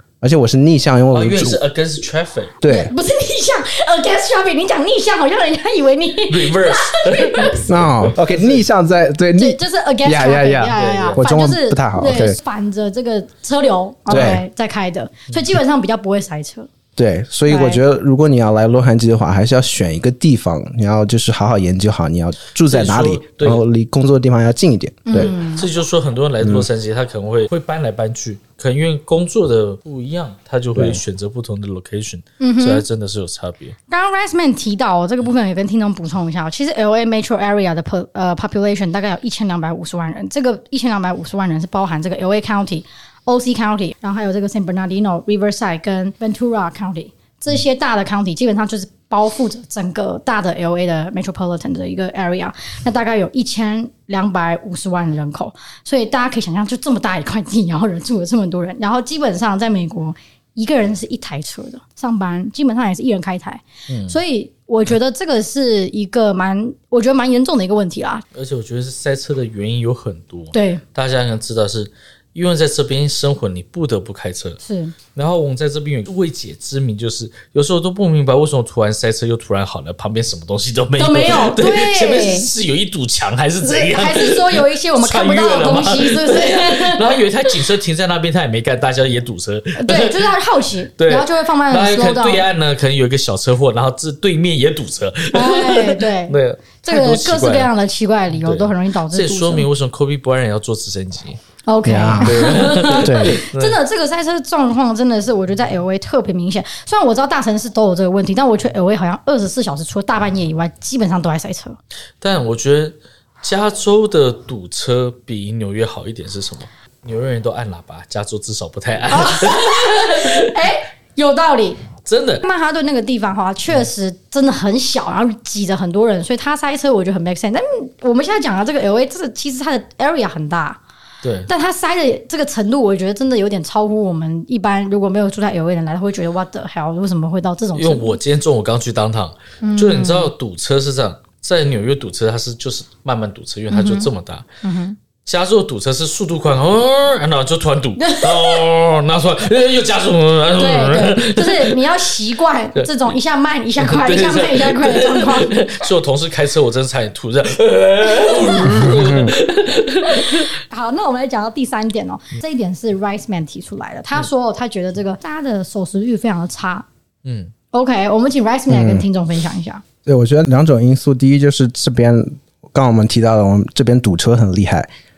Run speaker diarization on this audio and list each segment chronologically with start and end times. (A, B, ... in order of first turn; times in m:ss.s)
0:00.2-0:01.6 A
0:01.1-0:02.5 B
0:02.6-0:02.9 A
0:02.6-0:07.6 C
0:06.3-0:08.6 B
0:07.6-0:12.4 A
0:09.4-0:16.7 C
0:10.7-0:11.2 B
0:14.1-0:14.4 B
0:14.1-0:14.4 A
0:17.0-0:25.3 A
0:17.4-0:17.8 C
0:22.6-0:23.6 B
0:25.1-0:25.6 C
0:25.1-0:33.7 B
0:26.4-0:26.7 A
0:30.8-0:31.0 A
0:32.4-0:32.8 C
0:33.9-1:08.2 C
1:03.9-1:04.2 B
1:08.3-1:14.6 B
1:10.5-1:10.8 C
1:14.6-1:14.9 C
1:15.1-1:30.3 B
1:21.0-1:22.5 C
1:23.6-1:27.5 C
1:29.8-1:32.4 C
1:31.0-1:37.7 B
1:35.3-1:39.7 C
1:38.3-1:41.4 B
1:41.6-1:51.8 C
1:41.8-1:43.4 A
1:42.2-1:43.8 B
1:52.2-2:00.5 B
1:59.1-2:01.8 C
2:02.0-2:02.4 B
2:02.4-2:10.8 C
2:11.2-2:11.5 B
2:11.5-2:18.2 C
2:17.8-2:24.4 B
2:19.6-2:20.3 C
2:23.7-2:24.1 C
2:24.6-2:25.0 C
2:25.2-2:32.0 B
2:28.0-2:28.7 C
2:30.5-2:35.7 C
2:32.8-2:33.1 B
2:33.8-2:40.5 B
2:38.0-2:39.0 C
2:38.8-2:39.3 A
2:40.0-2:46.8 C
2:47.2-2:47.5 B
2:47.7-2:49.8 C
2:48.7-2:49.0 A
2:50.0-2:54.9 A